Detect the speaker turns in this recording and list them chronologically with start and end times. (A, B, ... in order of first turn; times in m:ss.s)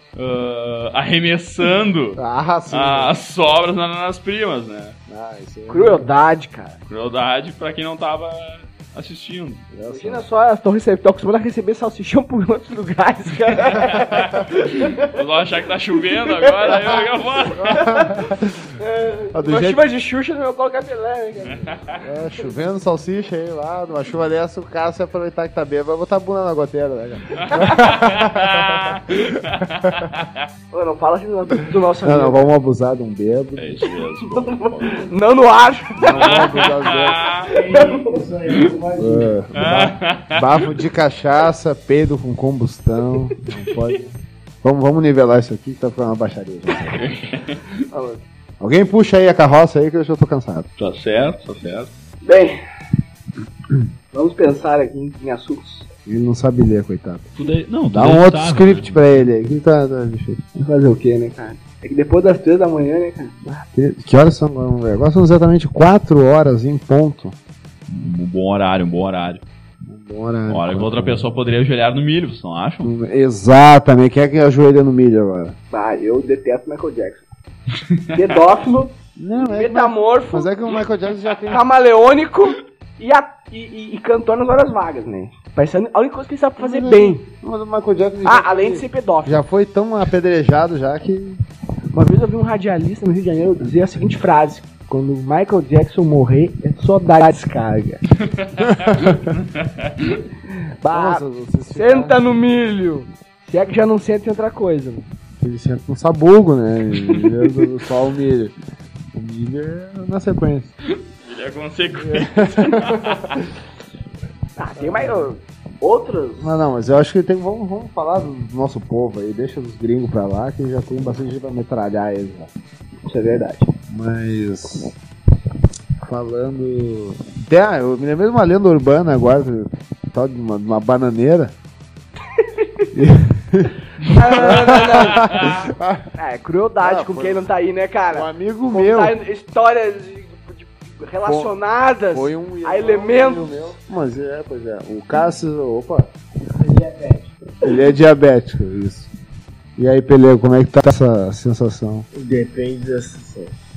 0:00.1-0:05.0 A
0:02.2-0:03.1 B
0:05.1-0:06.1 B
0:05.7-0:06.8 C
0:06.9-0:09.7 A
0:09.7-0:10.2 B
0:09.9-0:15.1 C
0:13.7-0:17.8 A
0:16.1-0:17.0 C
0:17.6-0:18.6 B
0:17.6-0:22.5 C
0:19.3-0:19.8 B
0:22.0-0:29.2 B
0:27.5-0:30.5 A
0:30.7-0:32.5 C
0:32.0-0:33.8 B
0:33.6-0:35.1 A
0:34.2-0:36.5 C
0:36.0-0:37.4 B
0:36.0-0:37.5 A
0:37.4-0:38.2 C
0:37.5-0:39.4 D
0:38.9-0:47.0 B
0:39.6-0:40.7 A
0:46.9-0:47.6 A
0:47.9-0:48.2 C
0:48.6-0:50.7 B
0:50.8-0:51.9 A
0:52.2-0:52.6 C
0:54.1-0:55.9 C
0:56.1-0:57.2 B
0:57.4-0:59.2 A
0:57.9-1:00.4 B
1:00.6-1:03.4 C
1:03.4-1:07.4 B
1:07.9-1:09.4 A
1:09.8-1:11.3 B
1:10.5-1:12.9 A
1:12.8-1:15.6 B
1:15.7-1:17.2 C
1:17.9-1:18.2 A
1:18.1-1:20.5 C
1:19.2-1:21.6 B
1:21.5-1:27.2 C
1:26.6-1:31.4 B
1:28.2-1:29.4 C
1:31.9-1:38.0 C
1:38.4-1:40.2 A
1:40.8-1:45.0 C
1:40.9-1:42.2 B
1:45.4-1:48.6 B
1:49.1-1:50.7 B
1:51.2-1:53.5 A
1:52.0-1:53.4 B
1:54.6-1:56.6 C
1:54.8-1:55.3 B
1:56.4-2:02.5 B
2:03.1-2:03.7 C
2:03.9-2:05.0 B
2:06.0-2:11.5 B
2:12.4-2:12.8 C
2:12.9-2:16.0 B
2:14.1-2:15.5 C
2:15.2-2:15.6 A
2:16.2-2:23.7 C
2:16.8-2:17.5 B
2:18.1-2:19.1 B
2:21.2-2:21.5 B
2:22.1-2:26.1 B
2:26.6-2:27.2 D
2:26.7-2:27.1 C
2:27.6-2:29.1 B
2:29.8-2:32.1 B
2:32.1-2:33.5 D